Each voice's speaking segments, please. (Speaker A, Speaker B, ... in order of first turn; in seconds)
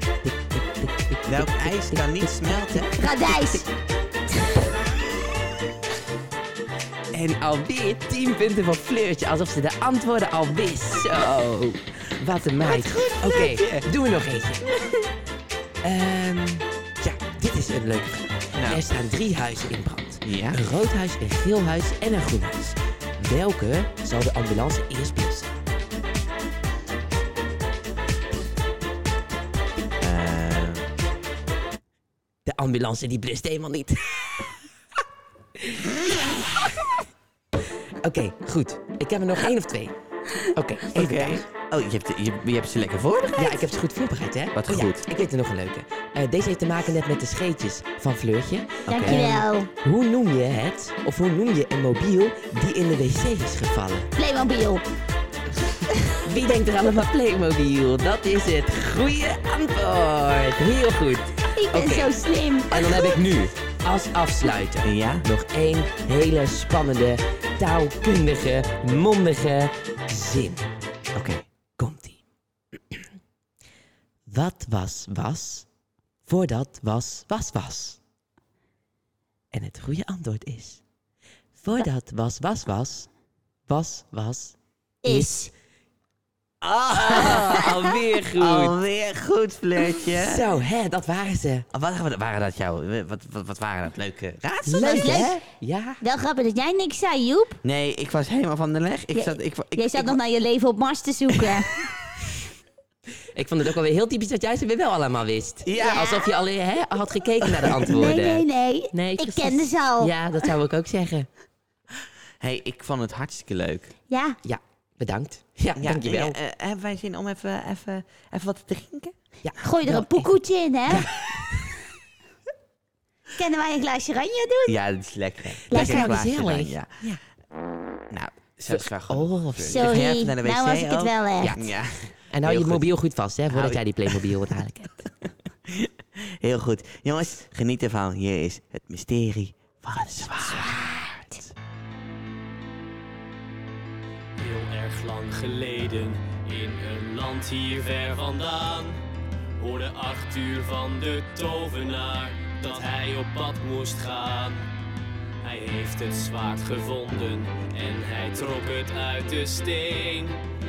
Speaker A: 0.2-2.9, 7.1-14.7, 15.8-25.6, 32.5-34.5, 35.6-36.9, 38.0-41.4, 43.4-54.1, 56.2-62.2, 62.7-70.7, 71.8-72.2, 74.3-75.7, 76.2-78.0, 79.5-80.8, 81.6-83.1, 83.7-85.5, 86.9-88.8, 90.1-91.7, 94.7-96.0, 103.3-111.3, 114.4-116.4, 119.4-121.7, 125.7-127.2, 128.7-130.0, 131.4-131.7, 132.3-135.1, 139.9-140.8
Speaker B: 1.2-3.5, 12.6-13.9, 18.5-18.8, 20.2-20.6, 30.0-30.9, 40.9-43.7, 44.5-45.0, 48.9-49.3, 64.8-65.2, 71.1-71.4, 86.6-90.5, 91.7-95.3, 97.6-100.2, 101.3-101.6, 105.6-106.2, 107.4-107.9, 112.4-113.9, 115.8-119.2, 124.7-127.0, 128.1-132.9, 133.5-134.5, 135.7-141.5
Speaker C: 3.0-3.7, 48.9-49.7, 54.1-54.8, 61.5-63.2, 85.0-85.5, 94.8-95.4, 96.0-97.6, 99.1-101.8, 105.8-106.3, 107.8-110.1, 114.1-114.4, 119.6-121.1, 123.3-124.8, 125.7-126.2, 129.6-131.6
Speaker D: 144.4-149.0, 149.6-154.6, 155.4-160.4